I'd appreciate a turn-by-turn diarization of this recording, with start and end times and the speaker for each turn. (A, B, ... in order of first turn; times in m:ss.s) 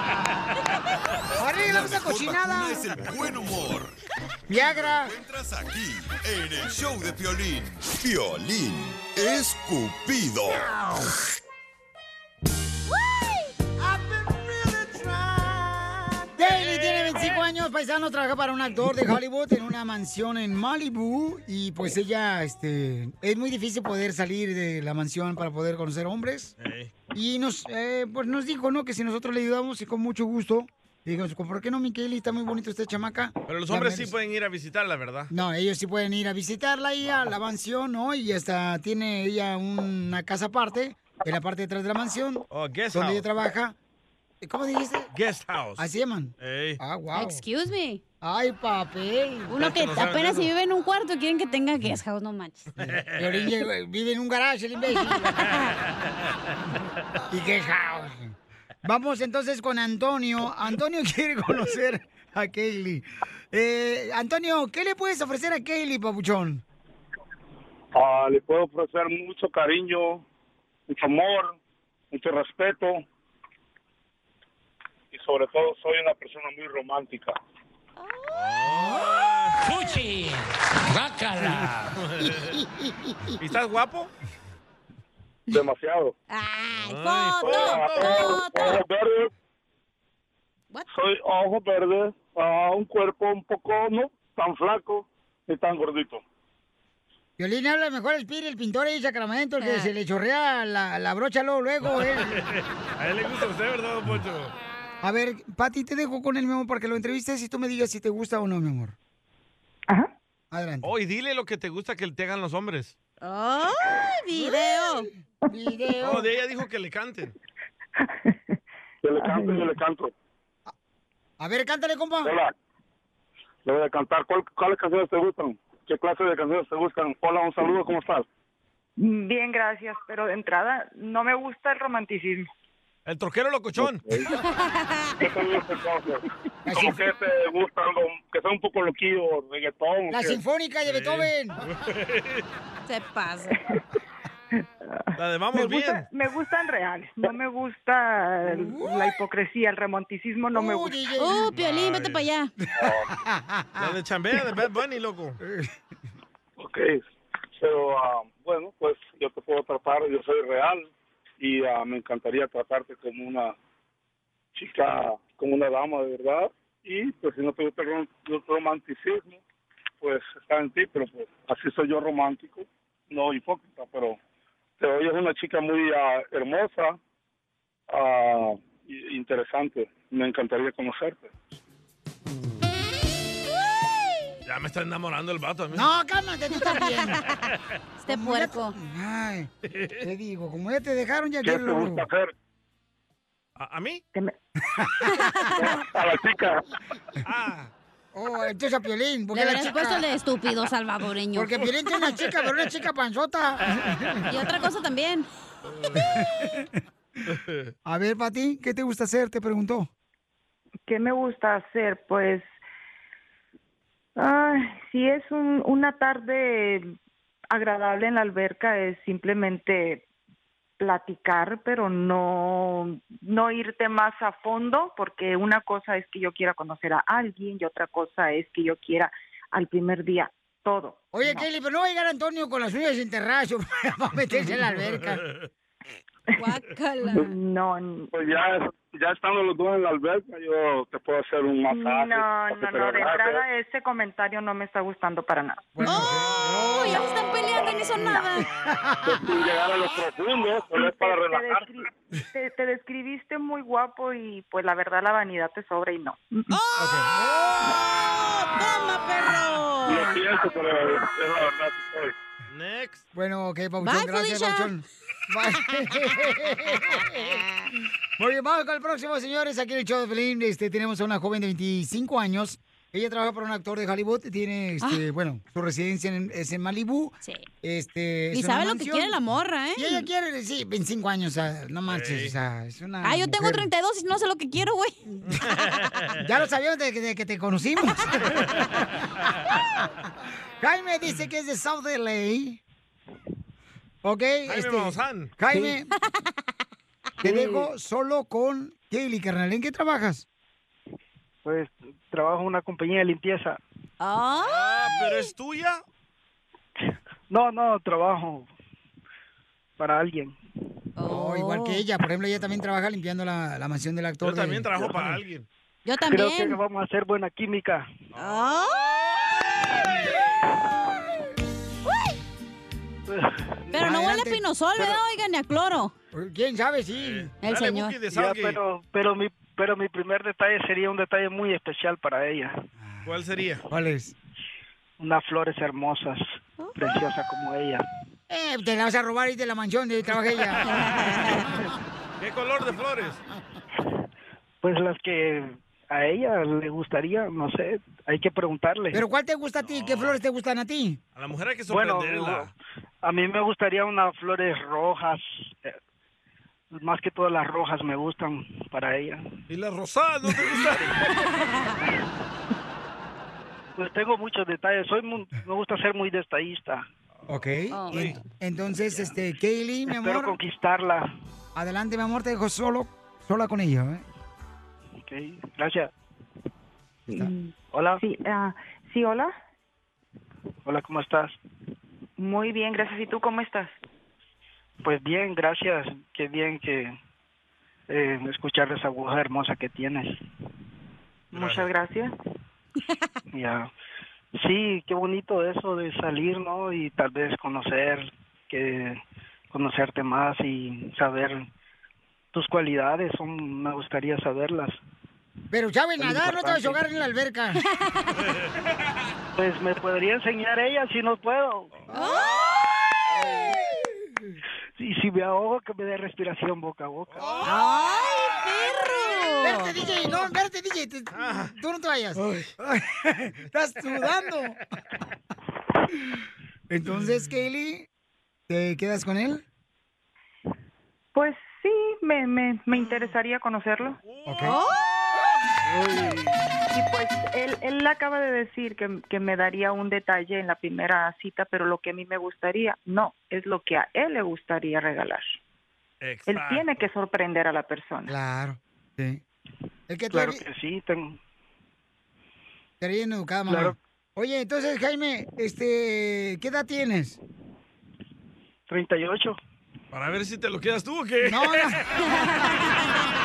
0:01.4-0:02.9 A
0:01.6-0:03.9 B
0:04.5-0:05.1 A
0:04.6-0:10.7 B
0:16.4-0:26.5 A
0:16.6-0:17.2 C
0:26.6-0:26.9 C
0:27.1-0:34.1 A
0:33.5-0:35.3 C
0:35.3-0:43.7 A
0:42.5-0:43.2 C
0:44.4-0:45.1 A
0:45.1-0:45.9 C
0:45.8-0:47.4 A
0:46.4-0:46.8 C
0:47.1-0:48.0 D
0:48.2-0:49.5 A
0:49.5-0:52.7 D
0:49.6-0:50.5 C
0:52.8-0:53.6 C
0:52.8-0:55.3 A
0:55.3-0:55.6 D
0:57.3-1:06.6 A
1:07.9-1:10.2 E
1:10.9-1:11.6 E
1:12.1-1:13.0 E
1:15.1-1:17.3 E
1:18.3-1:19.6 C
1:21.5-1:22.6 C
1:23.4-1:24.1 C
1:25.5-1:26.1 E
1:26.3-1:28.8 D
1:26.7-1:28.3 C
1:27.4-1:29.3 E
1:30.9-1:36.2 E
1:37.4-1:42.4 A
1:39.6-1:39.9 D
1:41.8-1:44.5 C
1:45.0-1:48.9 A
1:50.5-1:50.9 A
1:50.8-1:52.9 C
1:53.2-1:55.1 D
1:54.3-1:56.2 A
1:56.0-1:57.3 C
1:58.0-1:58.6 F
1:59.0-2:00.1 E
1:59.2-1:59.7 F
2:01.4-2:02.3 A
2:02.2-2:02.5 E
2:03.6-2:08.2 E
2:09.0-2:12.5 F
2:13.0-2:14.0 C
2:13.8-2:14.3 E
2:14.4-2:15.1 D
2:15.2-2:20.4 E
2:16.6-2:17.0 A
2:20.1-2:21.6 A
2:20.8-2:22.4 C
2:22.9-2:23.6 D
2:24.8-2:31.0 F
2:25.2-2:26.1 C
2:28.4-2:29.1 A
2:30.5-2:31.5 A
2:31.2-2:32.5 D
2:31.5-2:32.2 C
2:32.8-2:33.0 E
2:32.8-2:33.9 A
2:33.8-2:35.4 C
2:35.4-2:35.7 A
2:36.6-2:37.0 E
2:37.6-2:40.9 E
2:41.4-2:43.5 E
2:44.5-2:49.4 E
2:50.0-2:54.2 E
2:54.8-2:57.0 E
2:57.9-3:01.3 E
3:04.4-3:05.9 C
3:05.7-3:07.2 A
3:08.0-3:08.7 D
3:08.1-3:09.5 A
3:09.6-3:10.0 C
3:10.0-3:12.0 A
3:11.4-3:12.3 E
3:13.6-3:14.0 C
3:14.7-3:15.3 A
3:15.1-3:15.7 D
3:15.6-3:16.6 E
3:17.2-3:17.7 C
3:18.1-3:20.0 A
3:19.3-3:21.6 D
3:21.3-3:24.3 A
3:24.3-3:25.3 D
3:25.7-3:26.2 C
3:26.0-3:26.7 A
3:27.3-3:27.7 C
3:27.8-3:29.9 A
3:30.9-3:32.5 F
3:34.2-3:36.9 F
3:37.5-3:40.0 F
3:40.8-3:51.3 F
3:51.1-3:55.2 A
3:54.3-3:55.5 C
3:56.4-3:57.3 D
3:57.2-3:58.1 F
3:58.1-4:03.4 E
4:01.7-4:05.7 F
4:05.7-4:07.0 A
4:05.8-4:06.1 D
4:06.6-4:08.5 D
4:07.9-4:09.1 A
4:08.6-4:09.1 C
4:09.0-4:11.7 E
4:10.7-4:16.5 F
4:16.5-4:17.1 D
4:16.8-4:17.8 A
4:17.7-4:20.2 D
4:19.8-4:22.1 E
4:22.5-4:23.0 C
4:23.1-4:27.4 A
4:23.8-4:24.7 D
4:28.2-4:39.2 A
4:38.3-4:40.1 D
4:39.7-4:43.7 A
4:41.9-4:42.3 C
4:43.0-4:45.0 D
4:45.3-4:46.2 C
4:46.2-4:48.6 A
4:50.6-4:52.6 A
4:54.0-4:55.9 A
4:54.4-4:55.3 C
4:57.2-5:00.2 A
5:01.4-5:03.6 G
5:04.0-5:05.2 D
5:04.4-5:05.8 C
5:07.3-5:08.5 G
5:09.8-5:10.4 G
5:11.0-5:11.8 D
5:11.1-5:15.2 A
5:14.2-5:15.4 C
5:15.8-5:16.6 D
5:16.1-5:17.9 G
5:18.1-5:19.2 C
5:18.2-5:18.9 D
5:21.9-5:22.1 D
5:23.1-5:23.4 G
5:23.7-5:25.9 D
5:23.8-5:25.0 A
5:26.1-5:27.3 A
5:26.9-5:28.6 C
5:27.4-5:27.9 D
5:28.1-5:32.6 G
5:32.8-5:33.2 A
5:33.0-5:33.6 C
5:33.7-5:34.1 A
5:35.0-5:37.8 G
5:38.3-5:40.7 A
5:40.6-5:41.6 C
5:40.7-5:41.4 D
5:42.2-5:43.2 C
5:44.6-5:49.0 G
5:48.9-5:51.0 A
5:49.6-5:50.2 C
5:51.2-5:52.5 C
5:51.7-5:52.5 G
5:53.0-5:55.8 G
5:56.7-5:59.4 G
5:59.5-6:01.1 C
6:03.8-6:06.8 G
6:07.3-6:10.4 A
6:07.7-6:08.0 D
6:07.9-6:08.2 C
6:09.9-6:11.1 G
6:11.5-6:14.0 A
6:15.0-6:15.9 G
6:17.2-6:19.3 F
6:17.7-6:18.0 G
6:20.6-6:21.4 G
6:22.2-6:23.7 F
6:24.8-6:26.9 G
6:27.9-6:30.2 G
6:31.3-6:32.1 F
6:31.3-6:31.7 C
6:33.3-6:33.7 G
6:34.4-6:39.0 G
6:39.5-6:41.5 G
6:42.3-6:44.8 G
6:45.5-6:47.6 A
6:46.0-6:46.8 G
6:47.8-6:48.1 D
6:49.4-6:51.7 G
6:51.9-6:52.3 D
6:53.1-6:53.6 A
6:54.8-6:57.2 G
6:57.1-6:57.6 C
6:57.4-6:59.7 D
6:59.4-7:04.6 A
7:01.1-7:01.5 C
7:06.7-7:07.9 A
7:06.9-7:07.2 C
7:08.5-7:09.4 A
7:11.1-7:14.0 F
7:14.0-7:14.6 C
7:14.2-7:14.6 A
7:14.4-7:14.7 D
7:16.7-7:25.4 F
7:26.0-7:26.8 C
7:26.3-7:28.1 F
7:28.1-7:29.2 A
7:29.9-7:30.4 A
7:30.1-7:31.2 G
7:32.8-7:37.2 A
7:33.5-7:33.8 G
7:38.7-7:39.4 G
7:39.9-7:42.3 C
7:41.2-7:42.6 A